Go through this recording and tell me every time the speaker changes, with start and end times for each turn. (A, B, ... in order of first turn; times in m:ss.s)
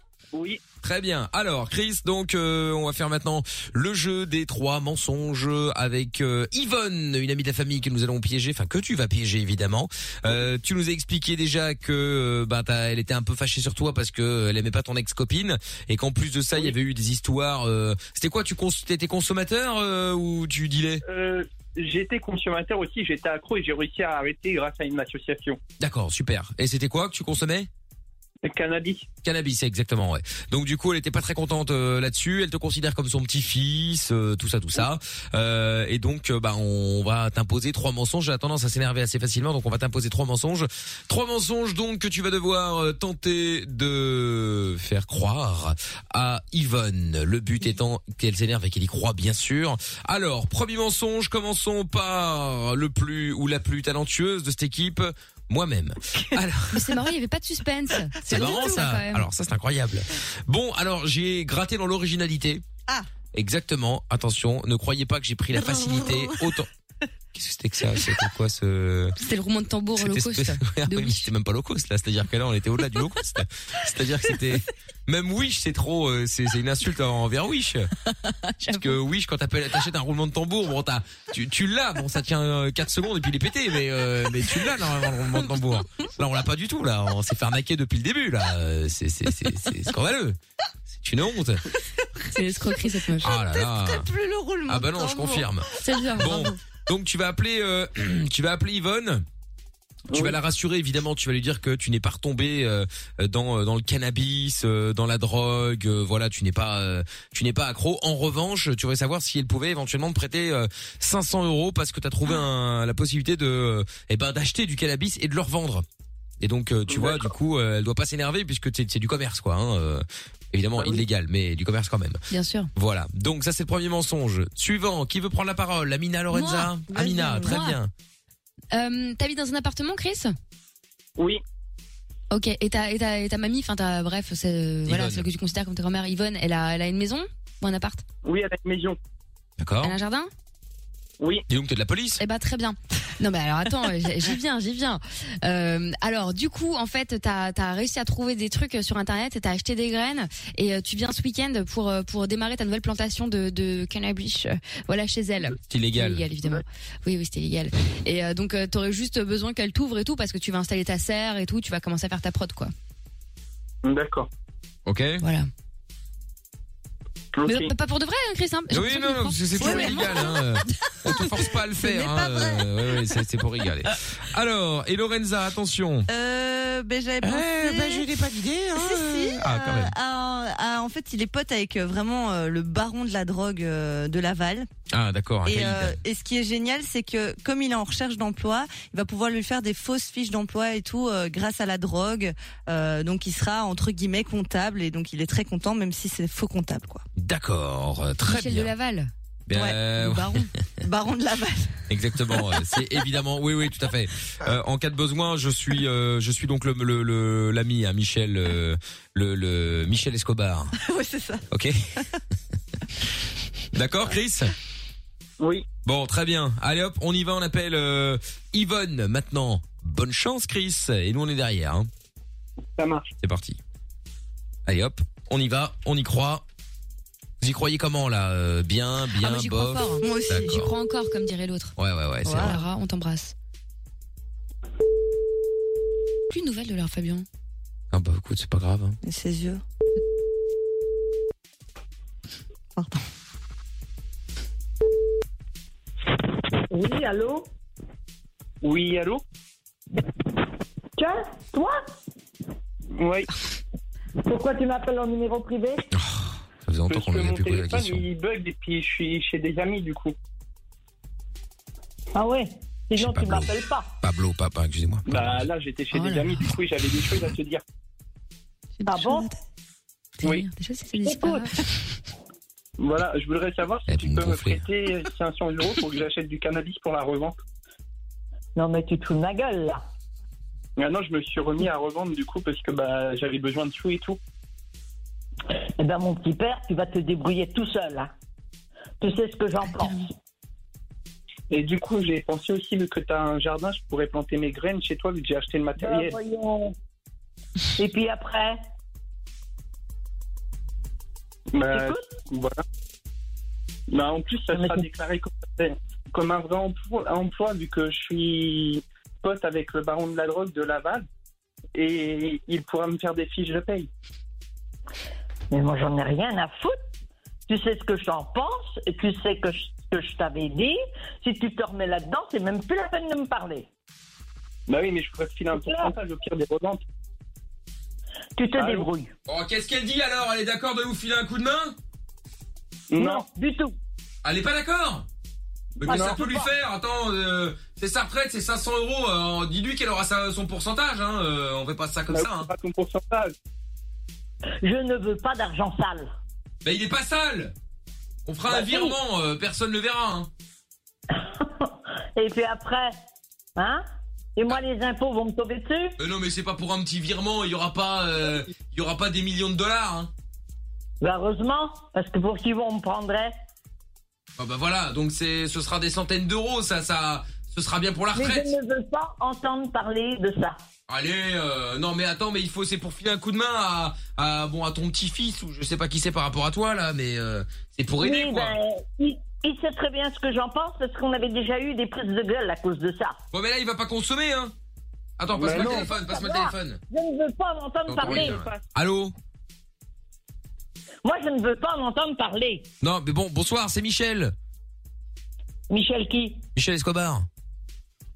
0:00.3-0:00.6 A
0:00.8-0:21.0 B
0:21.0-0:25.6 A
0:25.8-0:27.7 B
0:28.4-0:29.1 A
0:29.2-0:56.8 B
0:56.7-0:59.2 C
0:58.2-0:58.8 D
0:58.3-1:02.6 B
1:03.3-1:06.7 B
1:05.5-1:06.6 D
1:07.3-1:09.1 B
1:09.2-1:11.3 C
1:10.0-1:17.9 B
1:18.6-1:30.4 B
1:30.9-1:31.6 B
1:32.3-1:33.3 C
1:32.3-1:35.5 D
1:33.2-1:34.1 B
1:34.6-1:35.6 B
1:35.8-1:36.6 C
1:36.2-1:39.2 B
1:40.1-1:55.8 B
1:40.1-1:40.4 A
1:56.4-2:02.2 B
1:56.9-1:57.3 A
2:02.3-2:02.7 C
2:02.7-2:07.9 B
2:06.3-2:07.8 C
2:06.9-2:07.6 D
2:08.7-2:10.3 C
2:12.3-2:18.0 C
2:14.9-2:15.3 B
2:18.2-2:19.0 A
2:19.6-2:20.0 B
2:19.8-2:20.3 C
2:21.2-2:21.4 A
2:21.5-2:22.2 B
2:22.2-2:42.7 C
2:35.7-2:36.3 B
2:43.8-2:44.3 A
2:44.8-2:45.2 B
2:45.2-2:45.5 C
2:47.3-2:47.7 A
2:47.4-2:50.3 C
2:48.7-2:56.1 B
2:49.6-2:50.5 D
2:51.3-2:53.1 D
2:56.1-2:58.1 D
2:57.2-2:59.9 B
2:58.7-3:04.7 D
3:04.9-3:06.0 B
3:05.4-3:17.0 D
3:17.2-3:18.7 B
3:18.2-3:19.1 C
3:19.5-3:20.4 B
3:19.5-3:20.3 D
3:20.8-3:22.5 D
3:21.9-3:30.7 B
3:30.8-3:31.4 D
3:31.5-3:31.8 B
3:33.7-3:34.5 B
3:35.4-3:35.7 A
3:35.8-3:41.9 B
3:42.8-3:43.1 A
3:43.2-3:43.6 B
3:44.6-3:46.4 B
3:47.4-3:50.7 B
3:49.2-3:53.3 C
3:50.0-3:50.6 D
3:51.8-3:52.6 B
3:52.3-3:52.6 D
3:56.3-3:57.2 C
3:57.9-3:59.0 B
3:59.0-3:59.6 D
4:02.8-4:03.0 D
4:06.7-4:07.5 E
4:08.6-4:09.2 A
4:11.0-4:11.8 E
4:12.9-4:13.3 A
4:14.2-4:15.8 E
4:15.9-4:18.0 B
4:16.9-4:20.1 A
4:22.1-4:23.9 E
4:22.9-4:25.4 B
4:25.1-4:27.6 A
4:25.9-4:26.5 C
4:28.8-4:29.3 C
4:28.9-4:29.3 E
4:30.2-4:31.6 C
4:31.0-4:31.5 E
4:32.8-4:37.4 A
4:33.9-4:34.6 B
4:38.6-4:39.8 E
4:40.8-4:44.2 A
4:45.8-4:48.1 E
4:49.0-4:50.1 E
4:51.5-4:56.2 A
4:55.8-4:56.7 E
4:57.8-4:58.6 E
5:01.5-5:02.6 A
5:01.7-5:02.1 E
5:03.9-5:11.1 A
5:04.5-5:04.8 E
5:11.7-5:13.9 A
5:15.5-5:16.8 E
5:17.5-5:23.6 E
5:24.7-5:26.8 A
5:25.5-5:25.9 E
5:28.4-5:29.1 E
5:28.5-5:28.9 A
5:29.3-5:31.7 B
5:32.9-5:33.2 A
5:32.9-5:33.7 E
5:34.2-5:35.0 B
5:35.8-5:42.5 B
5:35.8-5:36.5 E
5:35.8-5:36.2 A
5:42.1-5:43.3 A
5:44.6-5:46.1 E
5:46.6-5:47.5 B
5:48.2-5:50.3 B
5:48.5-5:49.0 E
5:51.1-5:52.9 E
5:53.6-5:53.8 E
5:54.4-5:55.9 E
5:56.0-6:00.1 B
6:01.0-6:03.3 E
6:04.4-6:08.5 B
6:08.1-6:10.6 E
6:10.9-6:18.5 B
6:18.0-6:23.2 E
6:23.3-6:24.5 B
6:25.2-6:26.8 B
6:25.3-6:25.9 A
6:25.4-6:28.5 E
6:27.8-6:29.1 B
6:28.0-6:28.6 A
6:31.0-6:32.7 E
6:32.8-6:34.3 B
6:35.7-6:36.4 E
6:36.5-6:37.3 B